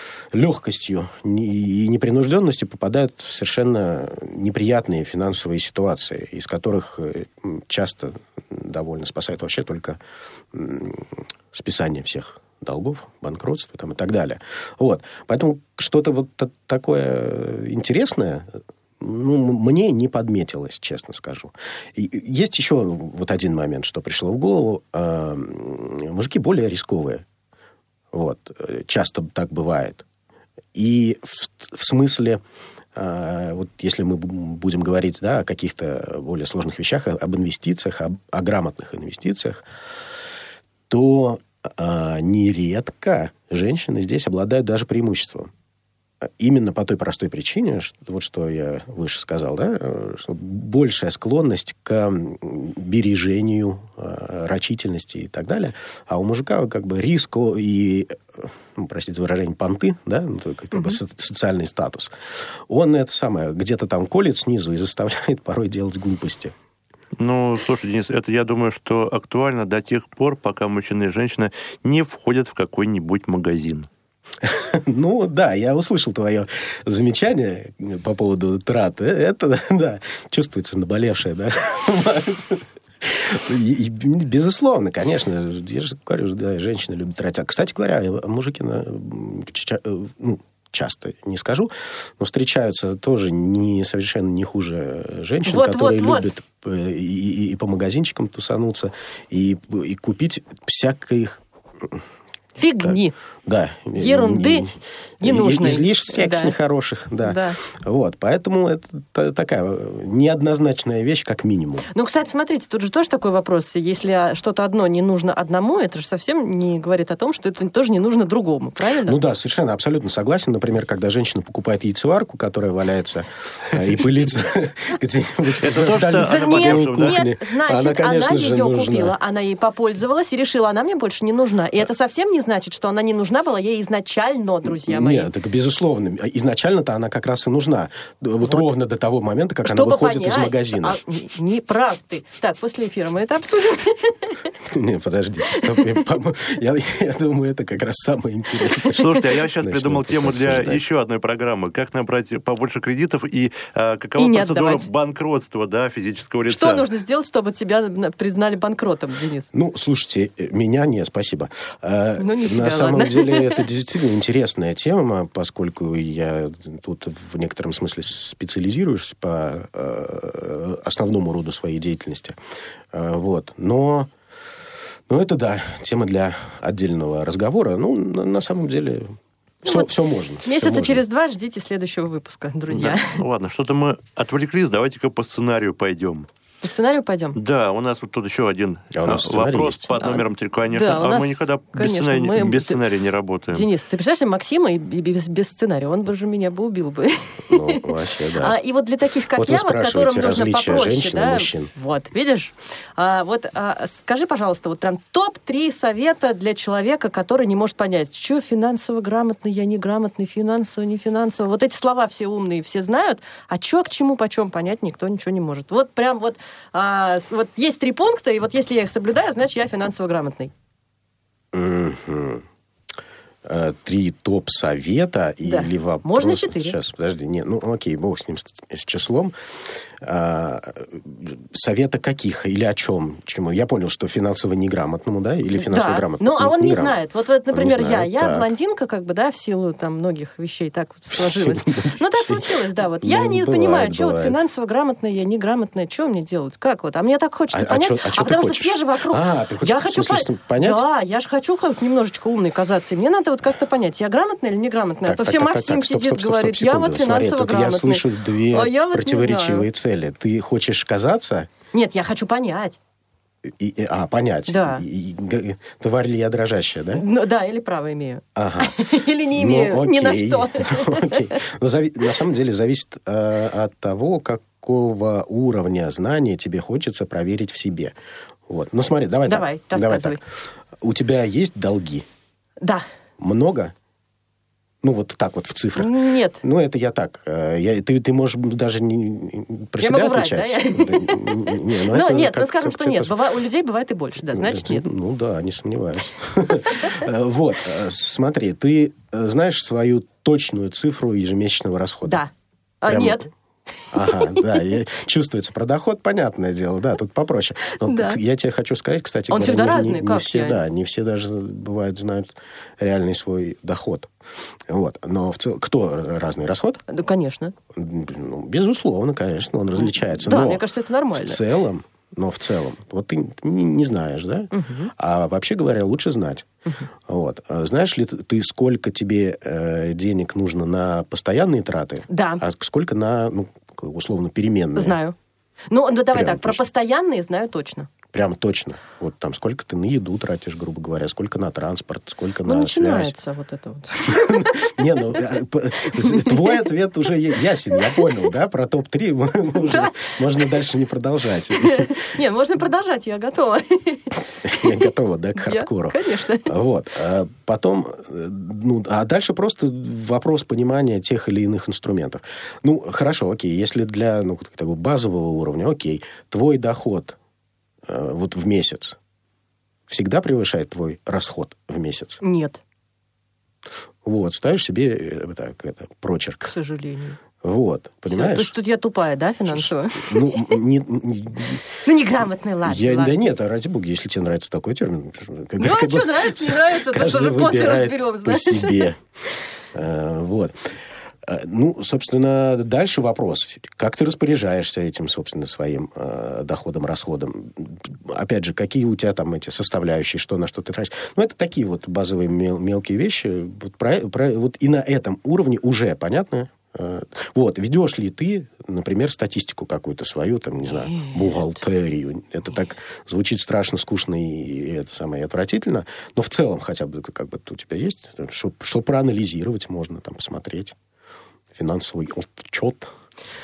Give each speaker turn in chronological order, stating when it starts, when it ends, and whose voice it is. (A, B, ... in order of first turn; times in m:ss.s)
0:00.3-0:10.0 A
0:10.5-0:27.2 A
0:28.1-0:30.0 A
0:30.7-0:32.4 A
0:32.9-0:39.6 A
0:40.9-0:45.5 A
0:46.2-1:02.1 A
1:00.7-1:01.0 B
1:02.7-1:06.6 A
1:07.2-1:13.9 C
1:14.4-1:42.0 A
1:35.4-1:36.3 B
1:42.6-1:43.1 B
1:42.8-1:51.9 A
1:43.9-1:44.7 B
1:45.2-1:46.6 B
1:47.2-1:47.6 B
1:51.9-1:59.2 B
1:59.0-2:09.1 A
2:05.6-2:07.2 C
2:06.2-2:15.3 B
2:14.6-2:21.0 A
2:19.6-2:24.4 B
2:24.6-2:30.8 A
2:25.4-2:25.8 B
2:28.9-2:36.8 C
2:34.2-2:34.9 B
2:36.5-2:39.5 B
2:39.5-2:52.4 A
2:42.2-2:43.6 B
2:52.9-2:54.1 A
2:55.1-3:01.0 A
2:59.6-2:59.9 B
3:00.4-3:03.2 B
3:02.7-3:06.3 C
3:06.6-3:07.4 B
3:07.4-3:13.7 C
3:08.9-3:09.9 A
3:10.0-3:12.8 B
3:13.5-3:17.8 B
3:17.5-3:18.6 A
3:18.4-3:40.5 B
3:19.3-3:21.7 A
3:41.5-3:42.5 A
3:43.4-3:49.4 A
3:45.4-3:46.8 B
3:50.0-3:57.0 A
3:55.6-4:19.7 B
3:57.5-3:58.5 A
4:01.1-4:02.4 A
4:03.0-4:04.4 A
4:07.5-4:10.8 A
4:15.0-4:21.5 A
4:21.7-4:22.8 B
4:23.4-4:27.0 A
4:24.5-4:24.8 B
4:26.9-4:31.4 B
4:28.4-4:37.9 A
4:38.5-4:40.2 A
4:39.2-4:40.2 B
4:40.8-4:42.1 A
4:42.6-4:42.9 B
4:43.2-4:43.7 A
4:44.8-4:53.2 A
4:45.8-4:46.4 B
4:49.8-4:54.9 B
4:54.3-5:02.2 A
4:56.7-4:57.0 B
5:02.1-5:02.3 B
5:02.8-5:03.3 B
5:02.9-5:03.3 A
5:03.9-5:14.1 A
5:04.0-5:04.4 B
5:07.7-5:08.2 B
5:09.3-5:10.6 B
5:14.7-5:16.8 A
5:16.9-5:17.6 B
5:17.7-5:26.5 A
5:19.8-5:21.4 B
5:24.5-5:24.9 B
5:27.1-5:35.0 A
5:32.1-5:32.4 B
5:34.8-5:35.1 B
5:35.7-5:37.9 B
5:36.1-5:36.6 A
5:38.1-5:43.1 A
5:42.4-5:45.2 B
5:44.0-5:52.1 A
5:45.9-5:46.7 B
5:47.7-5:48.1 B
5:49.7-5:50.1 B
5:51.6-5:54.9 B
5:54.4-6:07.2 A
5:55.4-5:56.5 B
6:07.9-6:09.0 A
6:09.9-6:12.2 A
6:12.2-6:12.6 B
6:14.0-6:16.5 A
6:16.4-6:17.2 B
6:17.4-6:18.6 A
6:18.1-6:20.6 B
6:19.5-6:21.7 A
6:21.8-6:23.1 B
6:22.6-6:29.0 A
6:25.6-6:28.9 B
6:29.7-6:30.7 A
6:31.2-7:00.8 A
6:50.8-6:51.4 B
7:01.5-7:02.9 A